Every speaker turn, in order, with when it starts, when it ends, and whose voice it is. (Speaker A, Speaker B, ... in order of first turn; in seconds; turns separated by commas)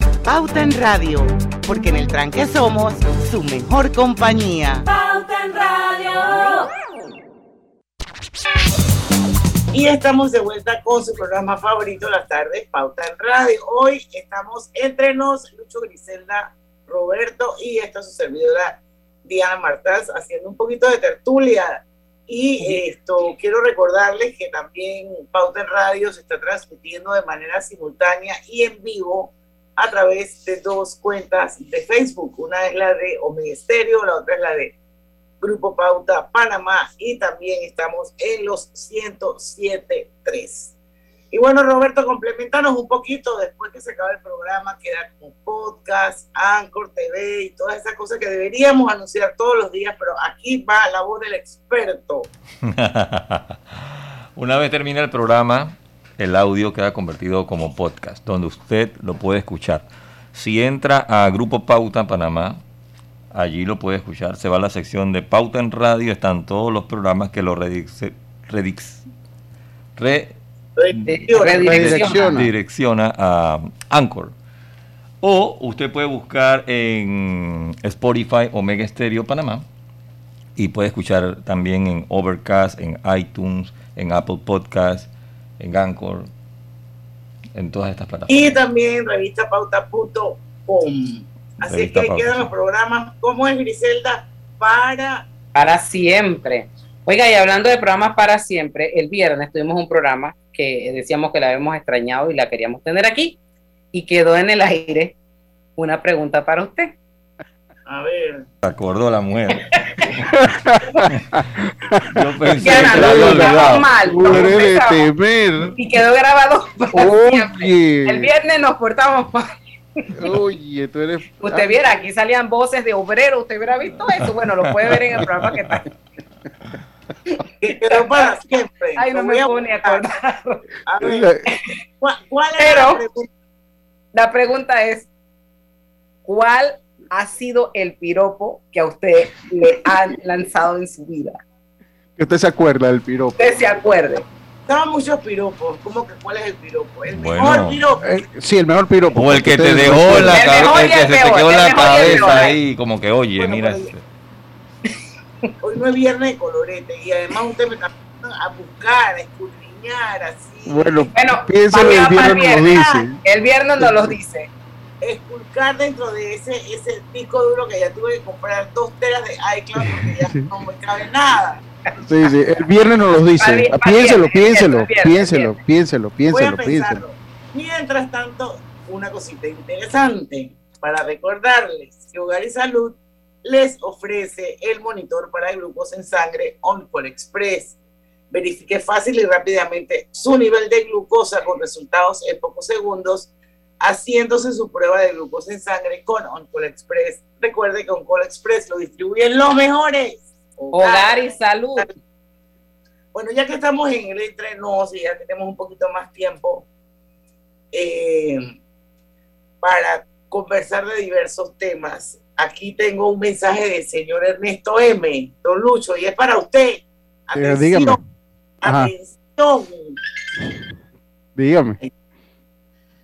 Speaker A: 0.2-4.8, Speaker B: 9.7-34.7, Speaker B: 35.4-40.7, Speaker B: 41.3-52.3, Speaker C: 52.6-53.6, Speaker C: 54.4-62.6, Speaker C: 63.3-69.0, Speaker C: 70.0-70.3, Speaker B: 70.8-71.9, Speaker C: 71.0-74.3, Speaker D: 71.1-72.2, Speaker E: 71.6-72.5, Speaker C: 75.2-79.6, Speaker C: 80.5-86.3, Speaker C: 87.5-88.6, Speaker B: 88.3-95.3, Speaker C: 91.6-92.5, Speaker D: 95.5-103.4, Speaker D: 103.9-105.1, Speaker D: 105.8-106.9, Speaker B: 107.9-108.5, Speaker C: 108.6-110.2, Speaker E: 110.4-111.1, Speaker C: 112.1-114.5, Speaker E: 112.5-115.7, Speaker D: 112.6-115.1, Speaker D: 115.7-119.4, Speaker E: 116.9-118.3, Speaker E: 120.1-121.8, Speaker D: 121.4-125.9, Speaker B: 127.6-130.0, Speaker D: 127.9-128.4, Speaker D: 128.9-130.6, Speaker B: 130.9-131.3, Speaker E: 131.0-131.4, Speaker B: 132.0-133.3, Speaker D: 132.6-133.0, Speaker D: 134.1-135.1, Speaker D: 136.2-141.4, Speaker E: 142.2-143.3, Speaker D: 143.4-144.2, Speaker B: 144.7-148.0, Speaker C: 147.1-147.8, Speaker E: 148.0-150.6, Speaker C: 149.1-154.0, Speaker D: 150.2-152.5, Speaker E: 151.9-152.3, Speaker B: 153.4-153.9, Speaker B: 155.6-161.1, Speaker E: 160.7-163.2, Speaker D: 161.1-164.5, Speaker B: 162.7-163.0, Speaker E: 163.8-164.1, Speaker B: 165.0-171.6, Speaker E: 169.8-170.4, Speaker E: 172.0-177.0, Speaker D: 173.4-175.6, Speaker B: 176.3-187.8, Speaker B: 188.3-193.3, Speaker B: 193.8-201.9, Speaker D: 200.7-201.9, Speaker B: 203.1-206.7, Speaker B: 207.7-208.5, Speaker B: 209.6-218.0, Speaker E: 217.3-218.0, Speaker B: 218.6-219.9, Speaker E: 218.6-218.9, Speaker E: 221.3-221.8